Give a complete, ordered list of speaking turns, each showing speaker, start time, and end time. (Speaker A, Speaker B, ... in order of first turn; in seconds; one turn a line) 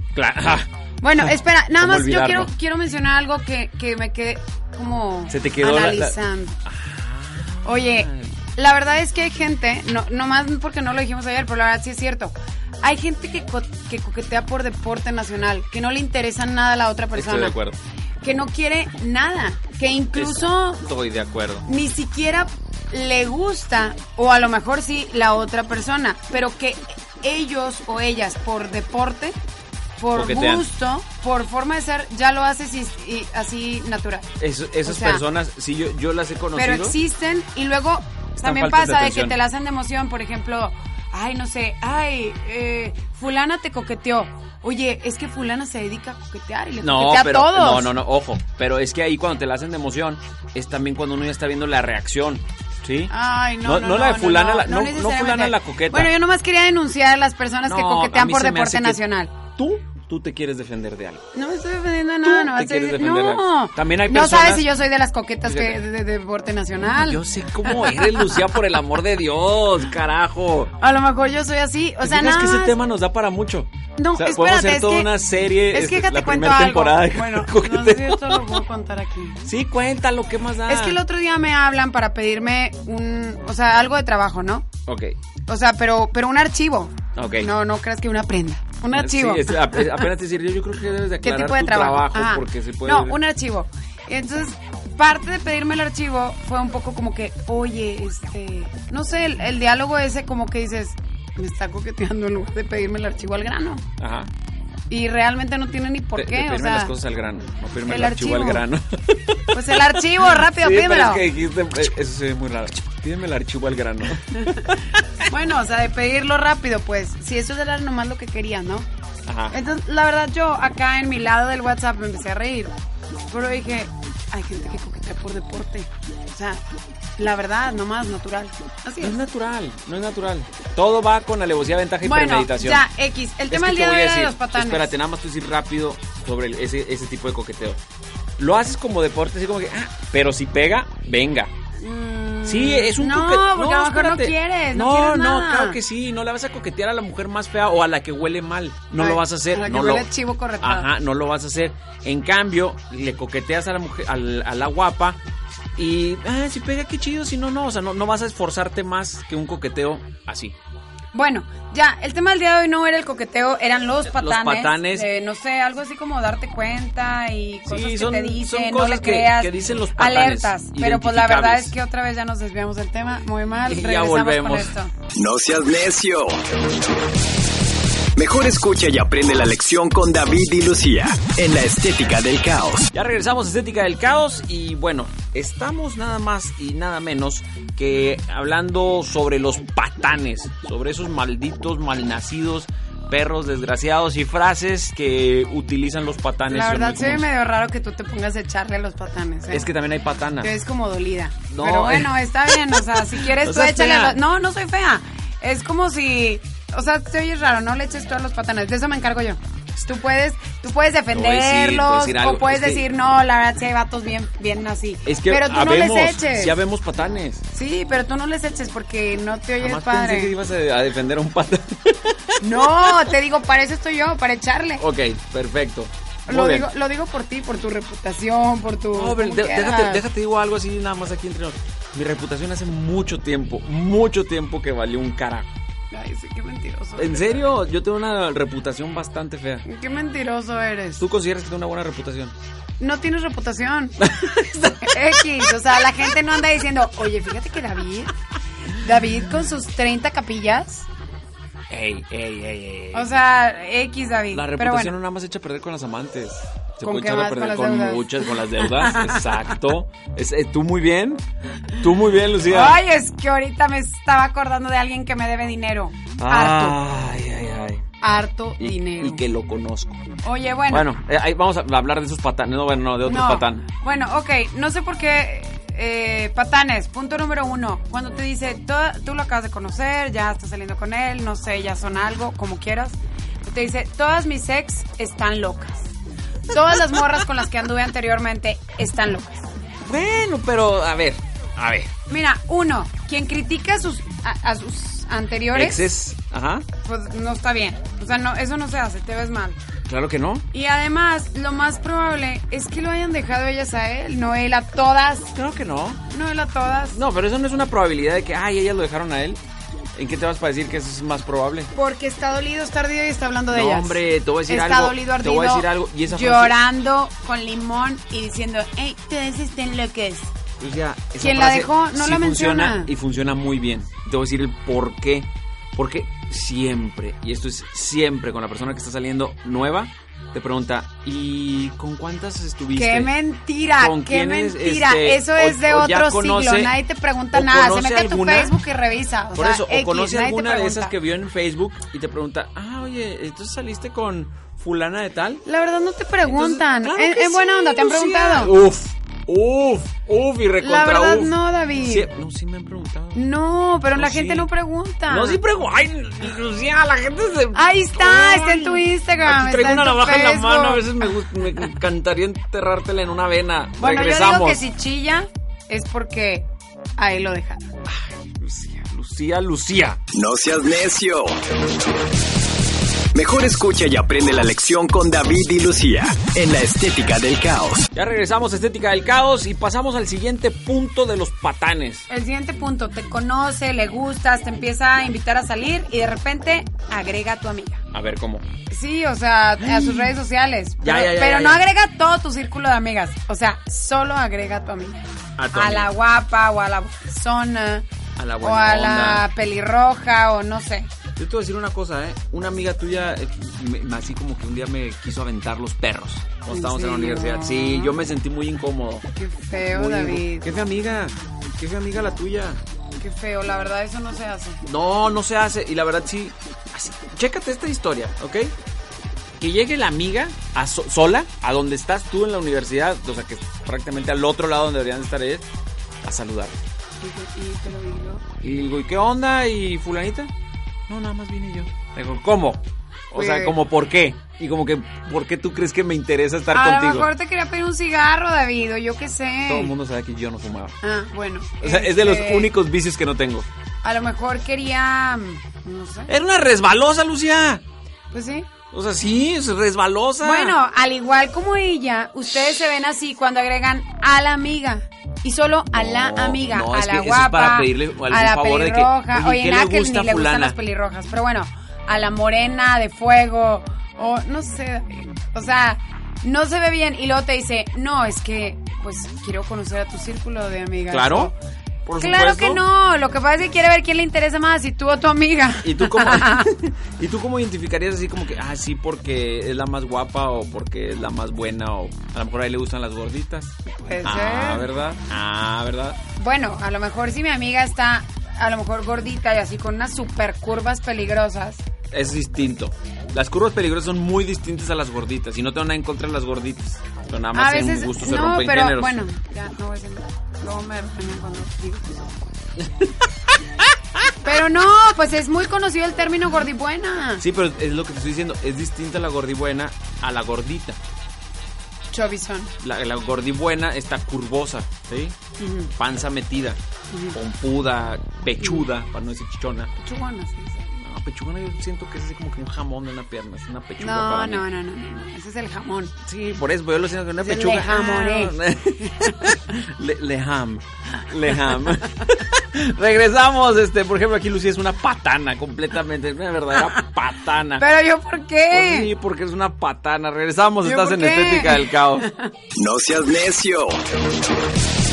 Speaker A: 0.1-2.5
Speaker B: 1.0-6.6
Speaker A: 5.3-6.2
Speaker A: 6.7-8.3
Speaker B: 7.7-17.6
Speaker A: 17.1-17.8
Speaker B: 18.2-20.8
Speaker A: 20.2-21.6
Speaker B: 21.6-29.4
Speaker B: 30.0-34.3
Speaker A: 30.1-30.7
Speaker A: 34.4-37.0
Speaker B: 34.9-35.2
Speaker B: 36.6-47.9
Speaker A: 38.4-39.4
Speaker A: 46.8-53.1
Speaker B: 53.1-59.3
Speaker A: 53.6-56.1
Speaker A: 57.7-61.2
Speaker B: 61.3-68.4
Speaker A: 62.2-64.7
Speaker A: 65.5-65.8
Speaker A: 66.9-70.7
Speaker B: 70.8-72.8
Speaker A: 72.0-78.6
Speaker B: 74.0-75.1
Speaker B: 75.7-79.4
Speaker A: 79.5-81.0
Speaker B: 80.7-84.7
Speaker A: 84.9-85.2
Speaker B: 85.5-90.1
Speaker A: 87.2-87.5
Speaker A: 88.9-93.2
Speaker B: 91.2-103.8
Speaker A: 104.0-104.3
Speaker B: 104.9-107.0
Speaker A: 106.2-115.0
Speaker B: 107.9-108.7
Speaker B: 109.5-111.2
Speaker B: 114.3-118.9
Speaker A: 119.3-119.5
Speaker B: 119.5-122.8
Speaker B: 123.3-126.6
Speaker B: 127.2-129.2
Speaker A: 129.0-132.8
Speaker B: 132.0-134.9
Speaker A: 133.5-137.8
Speaker A: 138.4-141.5
Speaker B: 141.8-145.8
Speaker A: 142.4-150.1
Speaker B: 149.0-150.9
Speaker A: 150.6-155.2
Speaker A: 155.8-160.6
Speaker B: 161.1-174.9
Speaker A: 164.1-165.1
Speaker A: 167.7-171.7
Speaker A: 173.7-174.7
Speaker C: 175.1-176.4
Speaker C: 178.2-182.9
Speaker A: 182.9-197.2
Speaker B: 196.5-199.7
Speaker A: 199.5-200.5
Speaker B: 200.4-216.6
Speaker A: 201.5-204.2
Speaker A: 211.1-212.9
Speaker A: 215.1-217.4
Speaker B: 217.5-220.3
Speaker A: 219.6-223.0
Speaker B: 222.4-224.8
Speaker A: 224.8-226.7
Speaker B: 226.3-230.0
Speaker A: 228.9-235.5
Speaker B: 235.9-237.5
Speaker A: 237.0-239.7
Speaker B: 239.7-241.0
Speaker A: 241.0-242.3
Speaker B: 242.8-244.1
Speaker A: 244.0-245.4
Speaker B: 244.8-248.1
Speaker B: 248.7-250.9
Speaker A: 251.7-253.1
Speaker B: 252.9-254.9
Speaker A: 254.3-261.2
Speaker B: 256.8-259.5
Speaker A: 261.8-262.8
Speaker B: 262.5-266.8
Speaker A: 266.2-267.8
Speaker B: 268.0-269.2
Speaker A: 268.6-270.1
Speaker B: 270.2-270.9
Speaker A: 270.7-273.7
Speaker B: 273.1-285.9
Speaker B: 286.5-289.5
Speaker A: 289.8-291.9
Speaker B: 292.1-295.9
Speaker A: 295.5-296.7
Speaker B: 296.8-299.6
Speaker A: 299.9-300.4
Speaker B: 300.5-305.3
Speaker A: 305.4-306.0
Speaker B: 306.1-307.0
Speaker A: 306.9-309.4
Speaker A: 310.0-311.7
Speaker B: 311.7-320.4
Speaker A: 313.5-316.6
Speaker A: 320.6-333.1
Speaker B: 321.2-322.9
Speaker B: 332.8-340.9
Speaker A: 333.8-336.8
Speaker A: 337.3-338.5
Speaker A: 339.4-345.4
Speaker B: 345.4-348.5
Speaker A: 346.3-353.2
Speaker B: 350.6-352.1
Speaker B: 353.1-355.4
Speaker A: 353.9-354.5
Speaker A: 355.1-364.6
Speaker B: 357.5-361.1
Speaker B: 363.8-367.7
Speaker A: 367.9-370.0
Speaker C: 370.1-371.4
Speaker C: 373.1-377.9
Speaker A: 377.9-382.1
Speaker B: 382.1-387.8
Speaker A: 387.9-388.5
Speaker B: 388.7-397.9
Speaker A: 389.6-390.2
Speaker A: 390.8-391.6
Speaker A: 395.4-395.9
Speaker A: 398.2-399.2
Speaker B: 398.4-400.9
Speaker A: 401.2-409.1
Speaker B: 406.5-407.9
Speaker B: 409.2-410.5
Speaker A: 409.7-412.6
Speaker B: 413.0-414.6
Speaker A: 414.6-418.5
Speaker A: 419.4-425.4
Speaker A: 426.0-426.6
Speaker B: 427.0-428.2
Speaker A: 428.4-430.3
Speaker A: 430.9-437.1
Speaker B: 433.1-433.6
Speaker B: 436.5-439.7
Speaker A: 439.5-440.8
Speaker B: 440.8-442.5
Speaker A: 441.6-443.5
Speaker B: 443.8-446.1
Speaker A: 446.1-447.6
Speaker B: 448.1-448.5
Speaker A: 448.7-450.6
Speaker B: 450.2-471.4
Speaker A: 455.7-460.6
Speaker A: 470.9-471.3
Speaker A: 471.9-472.6
Speaker B: 472.0-476.5
Speaker A: 475.6-486.0
Speaker B: 483.7-484.7
Speaker B: 486.2-491.6
Speaker A: 491.9-499.0
Speaker B: 497.3-502.2
Speaker A: 502.6-504.1
Speaker B: 504.2-507.2
Speaker A: 507.2-510.8
Speaker B: 511.9-512.5
Speaker A: 512.6-515.2
Speaker B: 515.4-515.7
Speaker A: 515.7-516.6
Speaker B: 516.9-517.2
Speaker A: 517.1-519.7
Speaker B: 518.4-518.7
Speaker B: 519.8-520.8
Speaker A: 520.8-524.5
Speaker B: 523.8-525.9
Speaker A: 526.0-537.6
Speaker B: 527.2-529.4
Speaker B: 537.6-538.9
Speaker A: 538.5-542.1
Speaker B: 540.6-542.3
Speaker C: 542.5-543.8